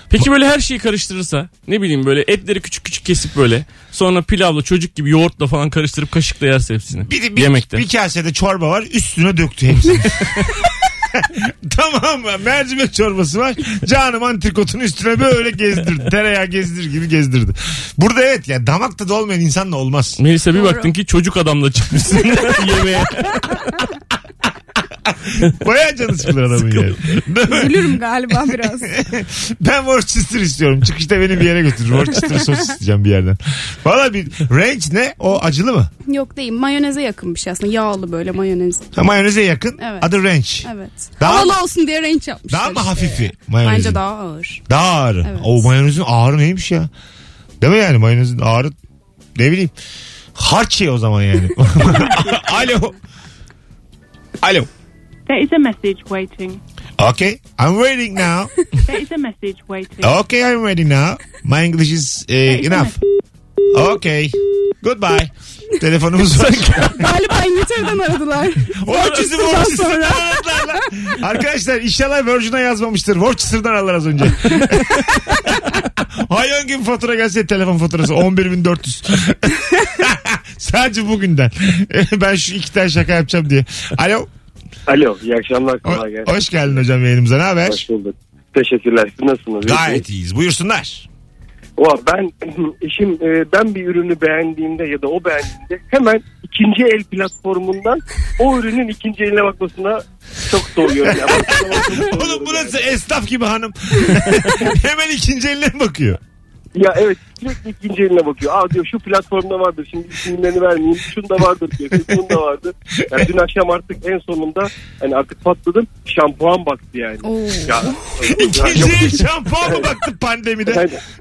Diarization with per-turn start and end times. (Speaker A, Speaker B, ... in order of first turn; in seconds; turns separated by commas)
Speaker A: 0.1-7.8, Speaker B: 7.1-20.2, Speaker A: 20.2-23.4, Speaker C: 20.5-20.9, Speaker B: 25.1-35.9, Speaker C: 27.5-28.9, Speaker C: 36.1-38.9, Speaker B: 38.9-40.7, Speaker C: 39.8-40.1, Speaker C: 40.6-44.6, Speaker B: 41.2-41.6, Speaker B: 42.5-44.0, Speaker B: 44.7-46.9, Speaker C: 45.2-45.7, Speaker B: 47.6-48.7, Speaker B: 49.4-49.7, Speaker B: 50.4-53.0, Speaker B: 54.4-54.7, Speaker D: 55.3-56.6, Speaker B: 57.0-58.5, Speaker D: 58.9-60.2, Speaker B: 60.0-63.0, Speaker B: 63.7-67.1, Speaker C: 66.9-70.8, Speaker B: 68.8-84.3, Speaker E: 84.9-86.3, Speaker B: 85.8-87.9, Speaker E: 87.7-90.0, Speaker B: 89.6-91.1, Speaker E: 91.8-102.8, Speaker B: 101.1-106.2, Speaker E: 106.8-119.8, Speaker C: 117.2-118.4, Speaker B: 118.3-120.9, Speaker E: 120.7-121.0